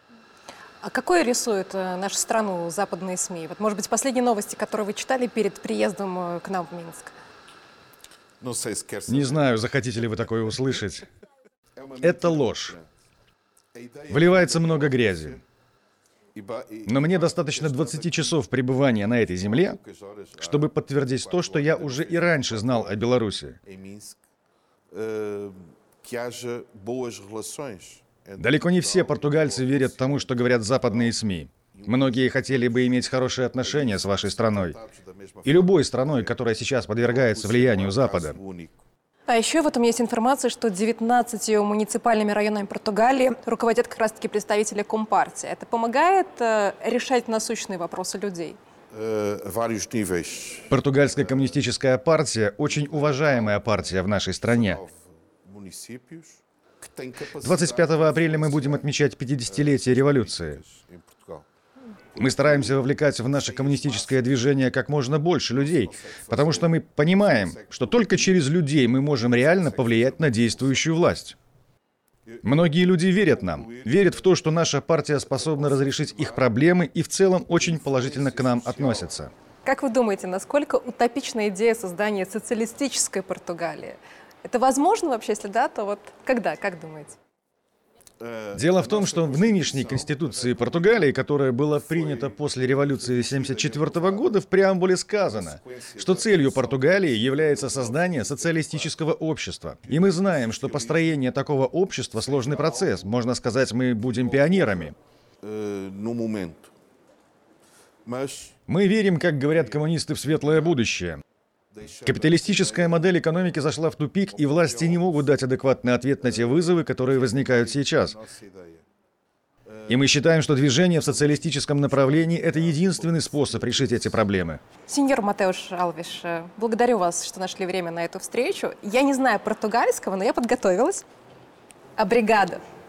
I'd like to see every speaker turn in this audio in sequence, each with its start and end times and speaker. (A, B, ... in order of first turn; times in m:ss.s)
0:00.8-0:07.1 A
0:08.4-0:09.4 B
0:09.1-0:11.0 C
0:11.8-0:12.9 B
0:12.0-0:12.8 C
0:13.7-0:15.4 B
0:14.1-0:15.4 C
0:16.3-0:18.4 B
0:16.9-0:19.8 C
0:19.4-0:23.1 B
0:20.4-0:23.6 C
0:23.6-0:24.2 B
0:24.9-0:31.2 B
0:28.4-0:34.8 C
0:31.7-0:36.4 B
0:35.4-0:38.4 C
0:37.0-0:38.8 B
0:39.3-0:48.6 A
0:48.9-0:51.6 B
0:50.7-0:54.8 C
0:52.6-0:53.9 B
0:54.4-0:58.9 B
0:57.4-1:00.6 C
0:59.5-1:01.5 B
1:02.1-1:04.5 B
1:02.2-1:11.4 C
1:05.5-1:08.4 B
1:09.2-1:11.0 B
1:12.3-1:14.4 B
1:12.4-1:19.3 C
1:15.1-1:16.5 B
1:17.5-1:19.2 B
1:19.6-1:27.2 A
1:28.2-1:34.3 B
1:28.6-1:44.9 C
1:35.2-1:39.0 B
1:39.9-1:41.2 B
1:42.1-1:43.2 B
1:44.0-1:46.7 B
1:48.0-1:48.6 B
1:48.7-1:51.2 C
1:49.5-1:50.8 B
1:51.7-1:53.1 B
1:52.0-1:58.2 C
1:54.3-1:55.4 B
1:56.2-1:58.8 B
1:59.7-2:00.2 B
1:59.9-2:04.6 C
2:00.8-2:04.3 B
2:04.9-2:11.0 A
2:12.0-2:12.6 A